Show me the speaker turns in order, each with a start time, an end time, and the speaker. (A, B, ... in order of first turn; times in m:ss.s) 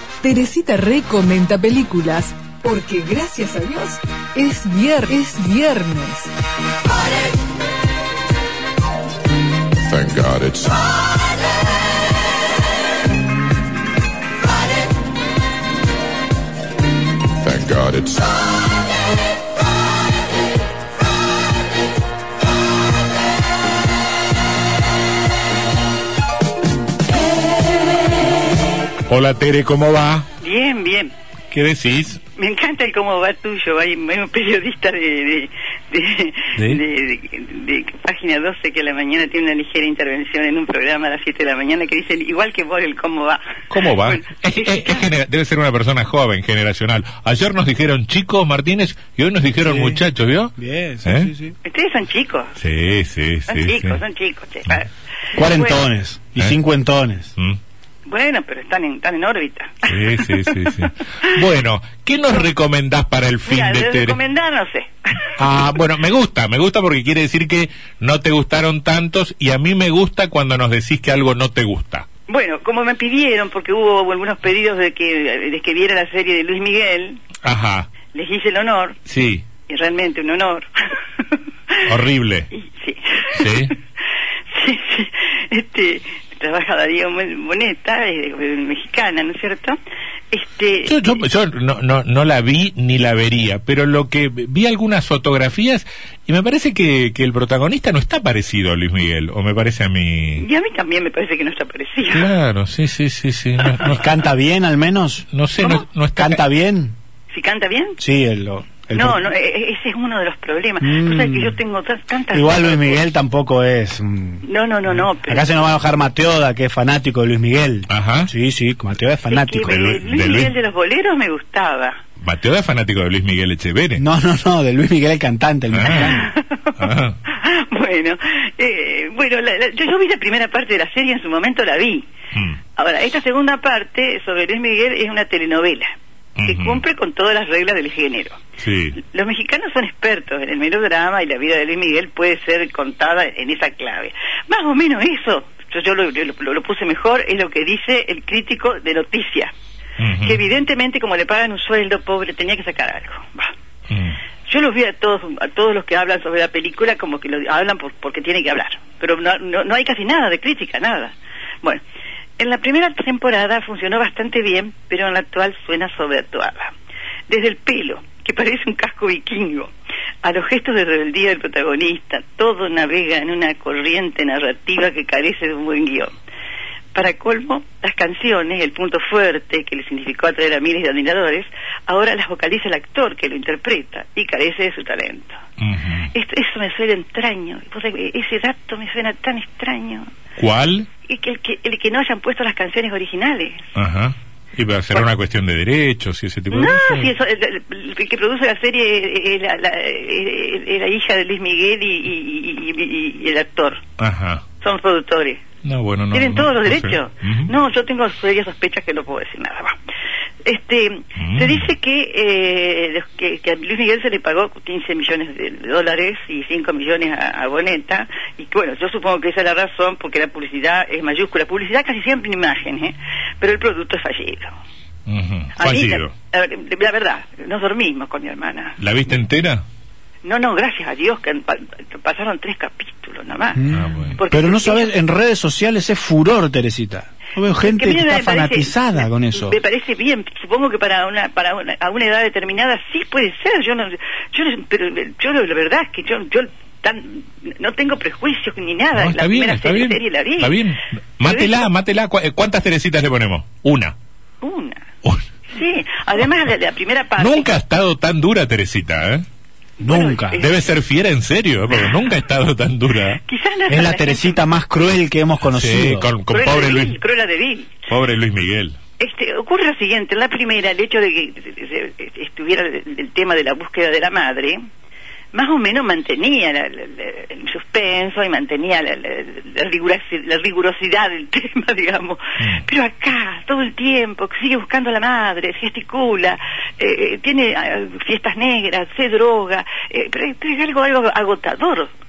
0:00.2-0:06.3 A
0:09.9-0:11.0 B
0:17.4-0:18.5 B
0:29.1-0:30.3 C
0:30.4-0:31.1 D
0:31.5-0:32.2 C
0:32.4-0:44.2 D
0:36.6-0:36.8 C
0:43.7-0:51.3 C
0:44.8-0:45.0 D
0:49.6-0:50.0 E
0:50.6-0:51.5 E
0:51.6-0:52.5 D
0:52.6-0:54.0 C
0:53.5-0:55.9 D
0:55.4-0:57.3 E
0:58.0-1:01.4 D
0:59.8-1:04.2 C
1:03.4-1:05.6 D
1:05.4-1:12.0 C
1:12.3-1:17.2 D
1:17.4-1:17.9 C
1:18.1-1:19.0 D
1:19.1-1:19.4 C
1:19.7-1:21.8 D
1:21.8-1:22.5 C
1:22.5-1:23.6 D
1:23.3-1:23.7 C
1:24.5-1:29.8 D
1:30.3-1:31.2 D
1:30.8-1:40.4 C
1:40.4-1:42.3 D
1:42.1-1:44.1 C
1:43.8-1:45.2 E
1:45.3-1:46.4 C
1:45.6-1:45.8 D
1:46.2-1:46.9 E
1:47.3-1:48.0 D
1:48.0-1:49.3 E
1:48.9-1:53.0 D
1:50.8-1:51.6 E
1:52.3-1:54.4 E
1:54.4-1:55.5 D
1:55.1-2:00.0 E
1:57.9-1:58.3 C
1:59.3-2:02.0 D
1:59.6-2:00.6 C
2:02.2-2:04.0 C
2:04.0-2:06.3 E
2:05.7-2:06.2 C
2:05.9-2:12.0 D
2:06.8-2:07.2 C
2:12.3-2:12.6 C
2:12.8-2:15.9 D
2:16.4-2:16.8 C
2:16.4-2:18.4 D
2:18.6-2:19.0 C
2:19.0-2:29.5 D
2:30.0-2:30.4 C
2:30.2-2:33.5 D
2:33.9-2:34.2 C
2:34.5-2:41.8 D
2:42.4-2:46.7 D
2:47.3-2:49.7 D
2:50.2-2:56.1 D
2:56.9-3:05.4 D
3:05.6-3:06.1 C
3:06.1-3:10.1 D
3:10.4-3:10.9 C
3:11.0-3:13.7 D
3:13.7-3:17.1 C
3:16.5-3:23.8 D
3:24.0-3:24.4 C
3:24.6-3:25.4 D
3:25.6-3:27.5 C
3:26.1-3:29.8 D
3:30.4-3:44.6 D
3:31.2-3:31.7 C
3:45.1-3:46.1 C
3:45.6-3:48.8 D
3:48.8-3:49.6 C
3:50.2-3:54.9 D
3:53.6-3:59.6 E
3:53.7-3:54.2 C
3:57.6-4:10.6 D
4:08.9-4:13.9 C
4:11.2-4:11.7 D
4:14.4-4:14.8 D
4:15.5-4:17.6 D
4:17.2-4:19.2 C
4:19.8-4:20.4 E
4:19.8-4:20.5 D
4:20.3-4:23.2 C
4:23.2-4:24.4 D
4:23.7-4:26.1 E
4:25.4-4:27.0 C
4:26.3-4:27.9 D
4:27.9-4:28.8 C
4:29.0-4:34.6 D
4:35.3-4:51.9 D